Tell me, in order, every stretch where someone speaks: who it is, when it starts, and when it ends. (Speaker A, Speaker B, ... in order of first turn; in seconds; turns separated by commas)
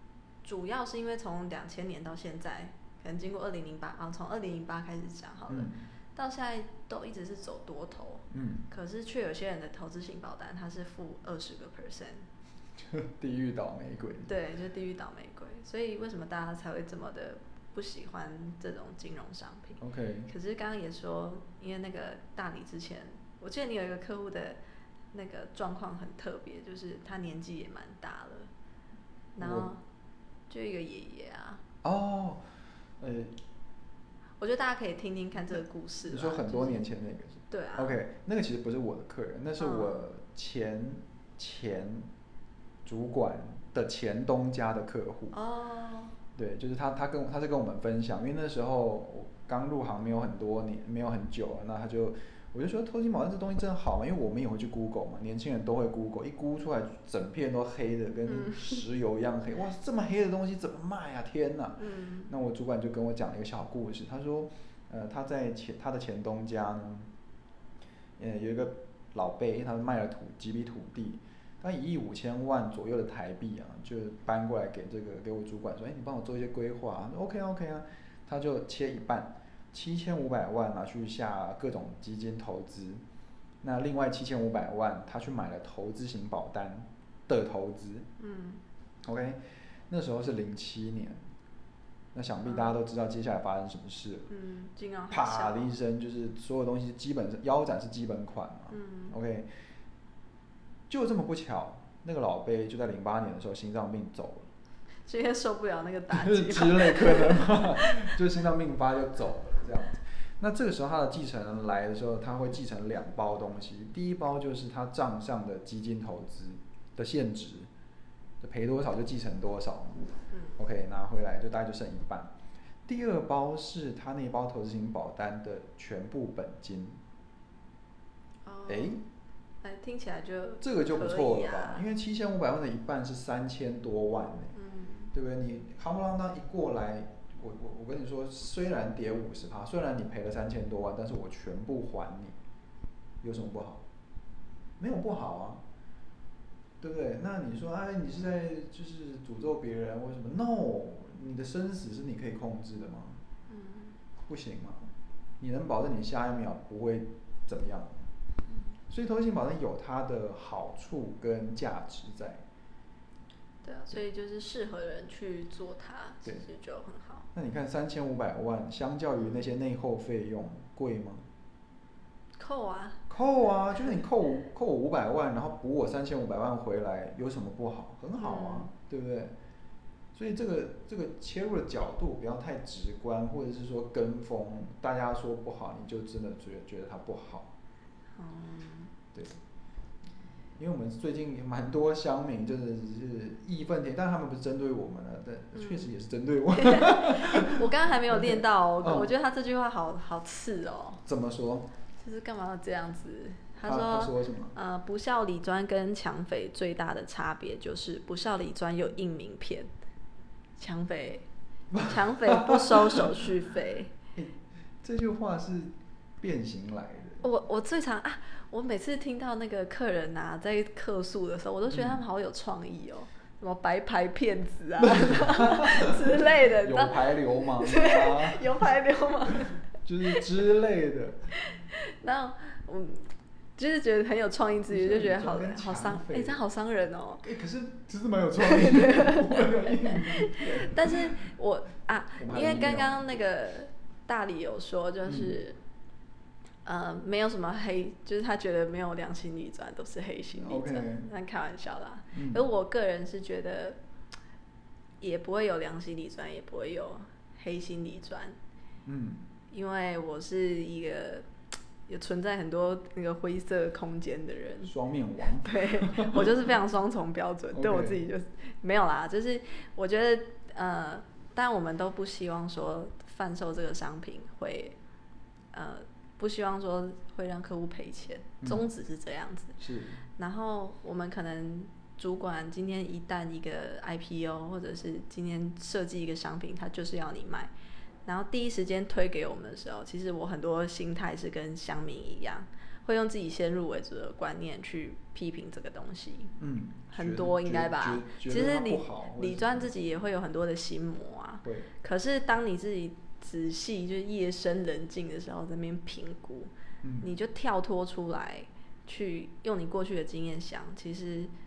Speaker A: 0.4-12.2, Speaker B: 5.5-5.8, Speaker B: 8.3-8.7, Speaker B: 12.8-14.3, Speaker A: 14.2-24.6, Speaker B: 19.8-20.3, Speaker A: 25.1-28.5, Speaker A: 29.3-29.8, Speaker B: 29.4-29.7, Speaker A: 30.5-31.6, Speaker B: 31.8-32.4, Speaker B: 33.0-33.3, Speaker A: 34.4-36.9, Speaker B: 36.1-42.1, Speaker A: 37.5-38.0, Speaker A: 39.6-40.0, Speaker B: 42.8-45.4, Speaker A: 45.3-46.1, Speaker B: 46.4-67.1, Speaker A: 58.3-58.8, Speaker A: 61.8-62.3, Speaker B: 68.2-83.0, Speaker B: 83.6-88.1, Speaker A: 88.2-88.6, Speaker B: 89.0-91.2, Speaker B: 92.1-94.3, Speaker A: 92.4-92.8, Speaker A: 94.3-95.7, Speaker B: 95.1-99.5, Speaker A: 98.7-99.2, Speaker B: 100.9-104.5, Speaker A: 105.0-108.2, Speaker B: 106.1-117.7, Speaker B: 118.4-120.0, Speaker A: 120.3-120.6, Speaker B: 120.6-122.3, Speaker B: 122.8-127.0, Speaker A: 128.4-129.0, Speaker B: 128.7-129.0, Speaker A: 129.6-131.8, Speaker B: 130.6-134.5, Speaker A: 134.5-135.1, Speaker B: 135.1-142.3, Speaker B: 143.2-143.8, Speaker B: 144.8-145.6, Speaker B: 146.8-153.2, Speaker A: 153.5-154.0, Speaker B: 154.2-158.1, Speaker B: 158.9-162.4, Speaker A: 163.6-167.3, Speaker B: 167.3-171.2, Speaker A: 169.2-169.5, Speaker A: 172.4-173.0, Speaker B: 173.1-179.3, Speaker A: 178.2-178.7, Speaker B: 180.1-187.5, Speaker A: 188.2-188.9, Speaker B: 189.1-189.4, Speaker B: 190.6-199.1, Speaker A: 195.5-195.9, Speaker A: 196.5-201.0, Speaker B: 201.1-201.7, Speaker A: 202.0-209.7, Speaker B: 203.6-204.5, Speaker A: 210.6-211.2, Speaker B: 211.7-213.2, Speaker A: 211.8-213.9, Speaker B: 214.1-217.2, Speaker A: 217.2-230.2, Speaker B: 221.7-222.0, Speaker B: 224.8-228.6, Speaker B: 229.8-231.2, Speaker A: 231.4-237.2, Speaker B: 234.7-236.4, Speaker B: 237.2-241.2, Speaker A: 238.4-245.6, Speaker B: 242.2-243.1, Speaker B: 245.1-245.3, Speaker A: 246.6-253.8, Speaker B: 250.4-251.1, Speaker B: 252.1-252.4, Speaker A: 255.0-258.4, Speaker B: 258.8-259.3, Speaker A: 259.5-261.3, Speaker A: 261.9-264.7, Speaker B: 264.6-266.5, Speaker A: 265.4-274.8, Speaker B: 267.5-268.0, Speaker A: 275.5-279.6, Speaker B: 279.6-280.0, Speaker A: 280.2-287.5, Speaker A: 288.1-296.4, Speaker B: 296.4-299.7, Speaker A: 296.9-306.5, Speaker B: 301.4-301.7, Speaker B: 306.8-307.1, Speaker A: 307.0-311.3